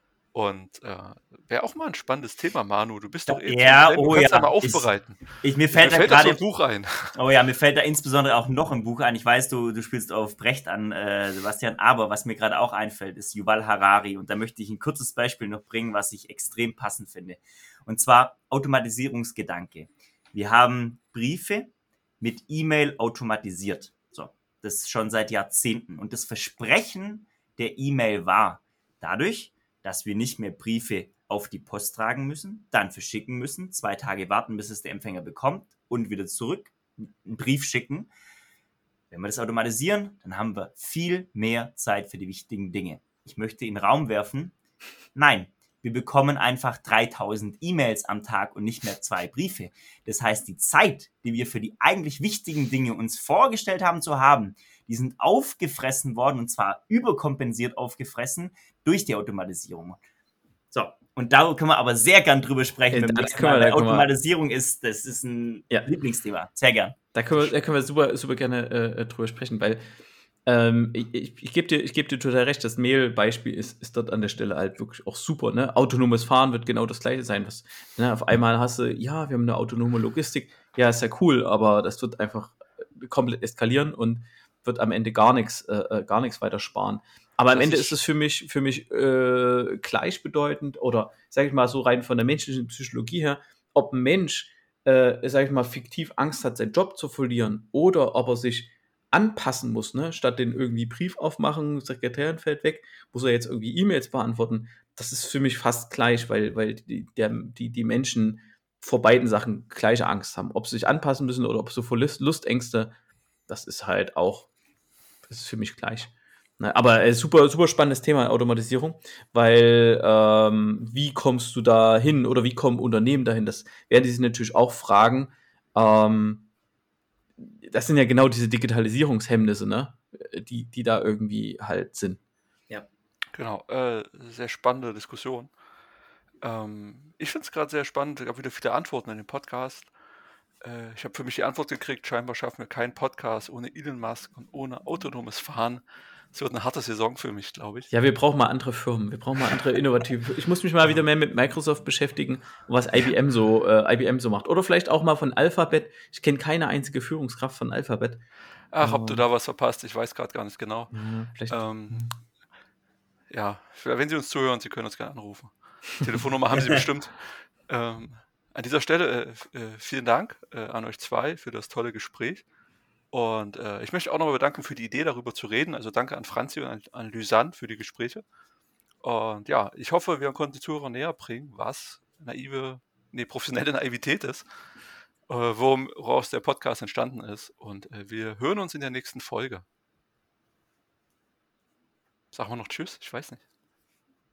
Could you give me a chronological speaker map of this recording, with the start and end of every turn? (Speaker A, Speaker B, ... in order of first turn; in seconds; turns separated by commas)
Speaker A: 0.3-7.2, Speaker B: 3.3-6.4, Speaker B: 7.1-38.1, Speaker B: 39.1-44.5, Speaker B: 45.1-60.0, Speaker B: 60.7-67.0, Speaker C: 62.9-64.1, Speaker C: 67.1-69.8, Speaker C: 70.5-112.9, Speaker A: 87.5-88.0, Speaker C: 113.5-114.5, Speaker C: 115.3-126.5, Speaker C: 127.4-132.2, Speaker A: 133.3-135.5, Speaker A: 136.4-139.9, Speaker A: 140.6-147.9, Speaker C: 147.9-158.2, Speaker A: 158.7-160.9, Speaker C: 158.8-159.2, Speaker C: 160.9-162.1, Speaker A: 161.5-162.1, Speaker A: 163.3-172.4, Speaker A: 173.1-178.2, Speaker A: 179.0-184.5, Speaker A: 185.3-189.6, Speaker A: 192.3-193.4